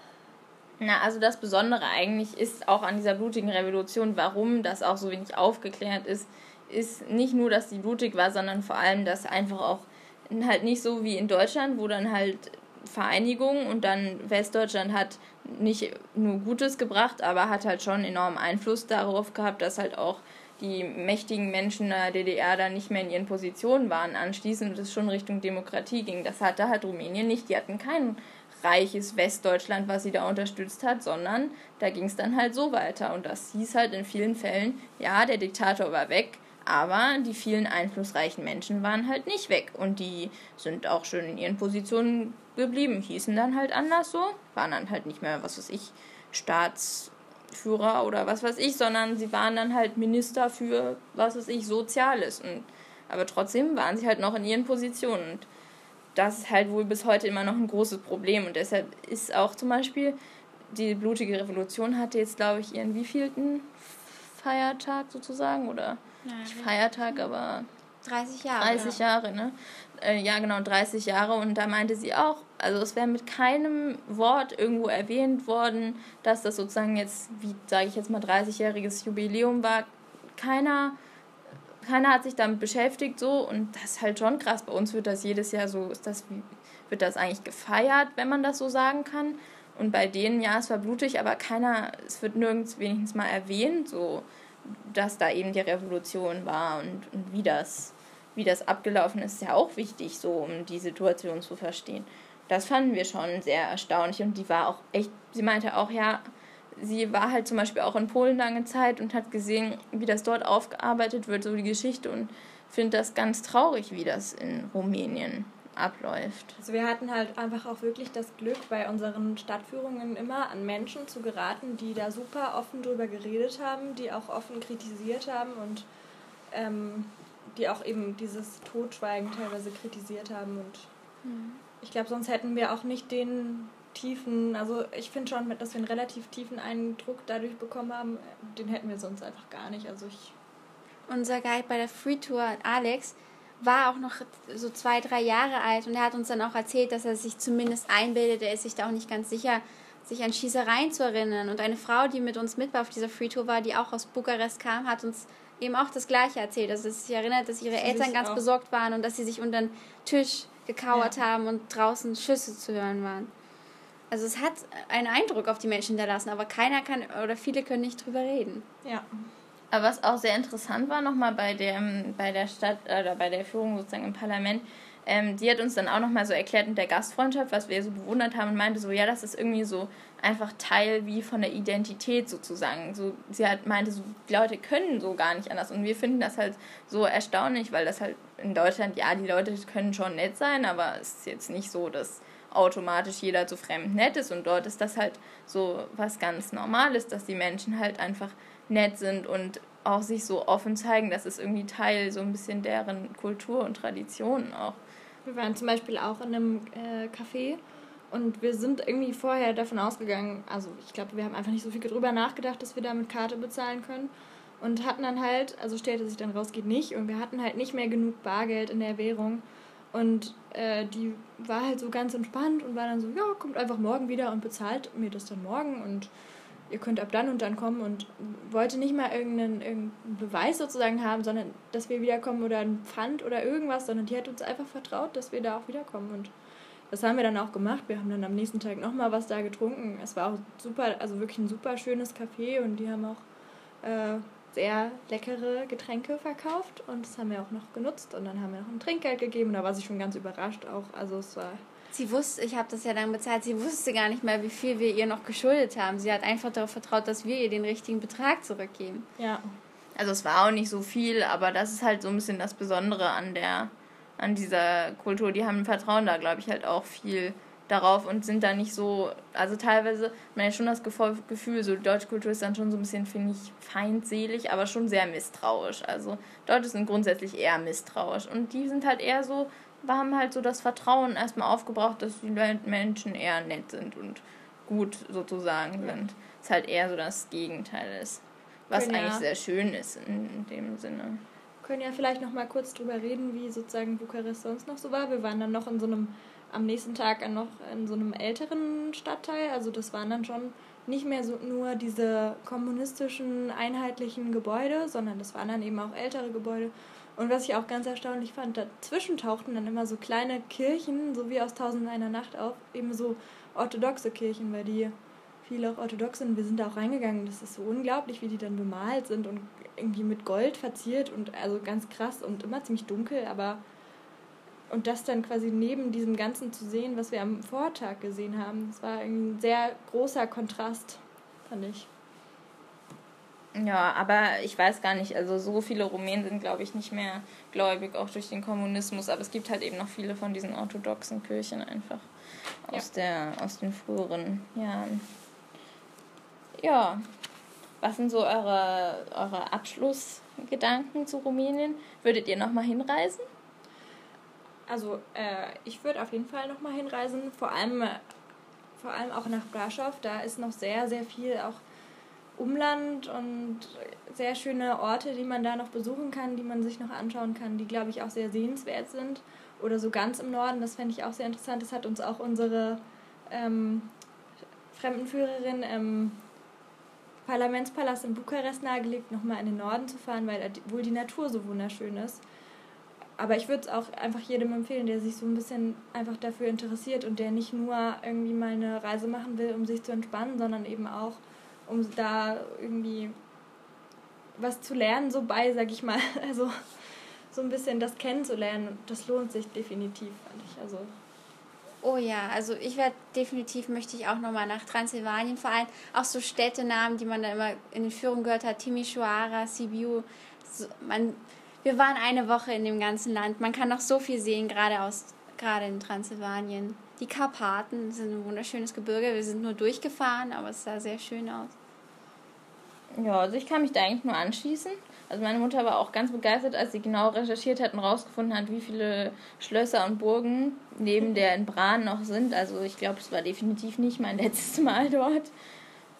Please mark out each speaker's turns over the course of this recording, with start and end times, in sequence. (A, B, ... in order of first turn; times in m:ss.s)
0:00.8-0:55.5 A
0:56.2-1:00.2 A
1:00.7-1:07.7 A
1:06.2-1:06.7 B
1:08.0-1:09.0 B
1:08.6-1:21.0 A
1:21.8-1:46.2 A
1:46.8-1:56.6 A
1:56.6-2:05.9 C
2:06.5-2:10.9 C
2:11.2-2:11.6 B
2:11.8-2:20.3 C
2:21.1-2:43.3 B
2:37.8-2:38.4 C
2:44.1-2:48.7 B
2:49.7-3:24.8 A
3:25.2-3:46.1 C
3:46.7-3:56.3 C
3:56.9-4:03.2 C
4:03.8-4:11.6 C
4:11.9-4:19.1 B
4:19.2-4:19.5 C
4:20.0-4:51.2 A
4:48.7-4:49.2 C
4:51.6-5:14.9 C
5:15.4-5:23.6 C
5:24.7-5:31.9 C
5:33.6-5:42.1 A
5:42.7-5:45.1 A
5:46.6-5:47.0 A
5:47.8-5:53.2 A
5:54.7-5:58.0 C
5:58.8-6:01.6 C
6:02.4-6:13.9 C
6:14.7-6:16.2 C
6:17.2-6:22.2 C
6:23.2-6:33.2 C
6:34.4-6:36.7 C
6:37.3-6:40.9 C
6:41.8-7:01.5 B
7:03.0-7:15.3 A